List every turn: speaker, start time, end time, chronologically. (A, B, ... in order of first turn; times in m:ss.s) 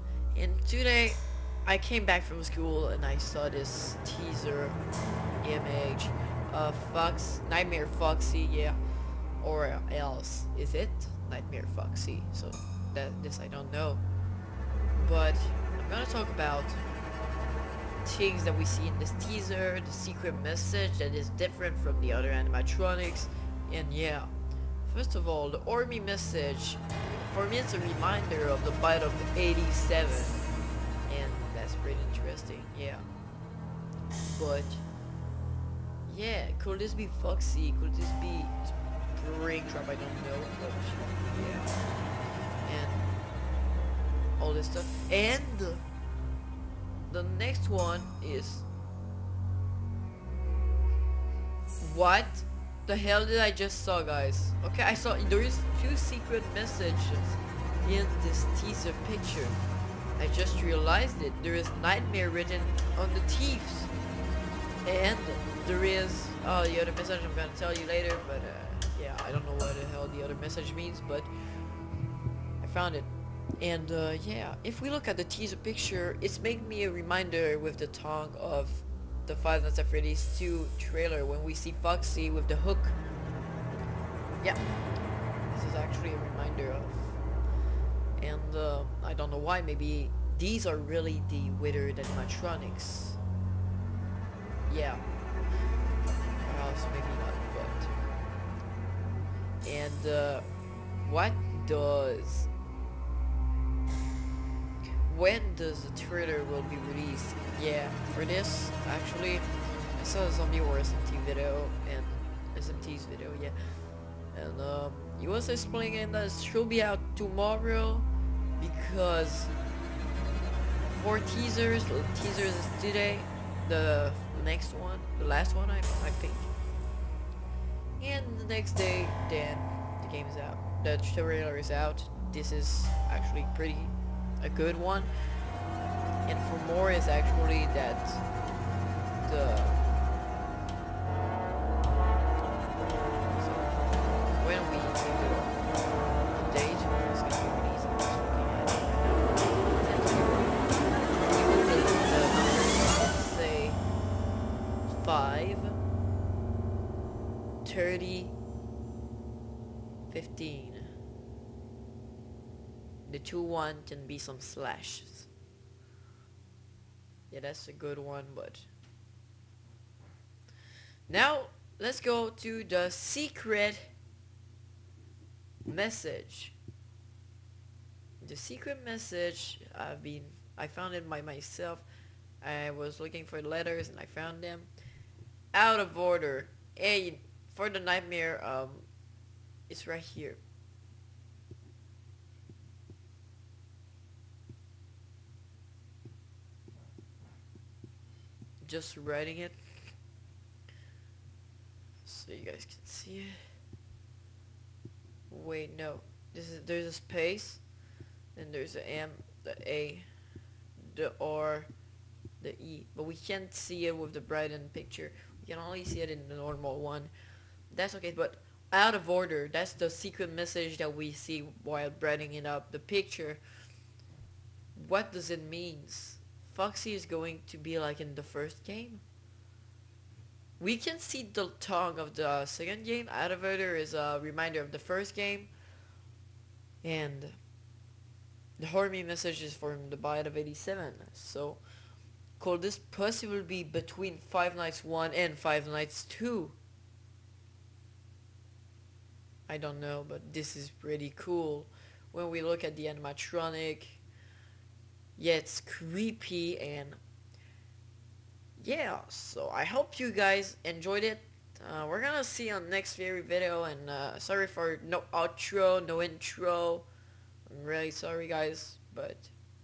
0:00.3-0:04.8 A
0:05.4-0:08.8 A
0:09.4-0:14.0 A
0:15.0-0:16.8 A
0:18.0-0:24.3 A
0:24.8-0:30.4 A
0:31.1-0:33.1 A
0:34.4-0:34.8 A
0:36.1-0:41.8 A
0:42.6-0:43.1 A
0:44.4-0:45.8 A
0:47.1-0:48.7 A
0:51.8-0:59.6 A
1:00.2-1:03.9 A
1:04.8-1:11.3 A
1:12.6-1:23.0 A
1:25.5-1:27.2 A
1:28.2-1:33.2 A
1:34.7-1:35.0 A
1:36.4-1:37.9 A
1:39.6-1:40.5 A
1:41.0-1:42.5 A
1:45.0-1:53.6 A
1:54.3-1:58.1 A
1:58.6-1:59.5 A
2:00.9-2:06.5 A
2:08.0-2:15.1 A
2:16.3-2:18.2 A
2:19.2-2:19.8 A
2:22.8-2:23.8 A
2:24.4-2:25.6 A
2:26.3-2:30.6 A
2:31.2-2:33.8 A
2:34.9-2:35.8 A
2:37.6-2:38.4 A
2:40.1-2:40.9 A
2:43.1-2:45.3 A
2:47.3-2:48.7 A
2:51.1-2:53.9 A
2:55.7-2:56.6 A
2:58.2-3:01.8 A
3:02.4-3:04.7 A
3:05.5-3:08.9 A
3:09.7-3:10.4 A
3:18.6-3:19.6 A
3:22.0-3:23.4 A
3:25.3-3:27.6 A
3:28.4-3:30.1 A
3:30.8-3:31.7 A
3:32.4-3:37.1 A
3:37.7-3:43.4 A
3:44.8-3:49.0 A
3:50.6-3:55.5 A
3:56.8-3:57.4 A
3:58.6-4:01.6 A
4:02.4-4:06.6 A
4:09.5-4:14.0 A
4:15.2-4:17.0 A
4:18.6-4:26.9 A
4:27.5-4:29.3 A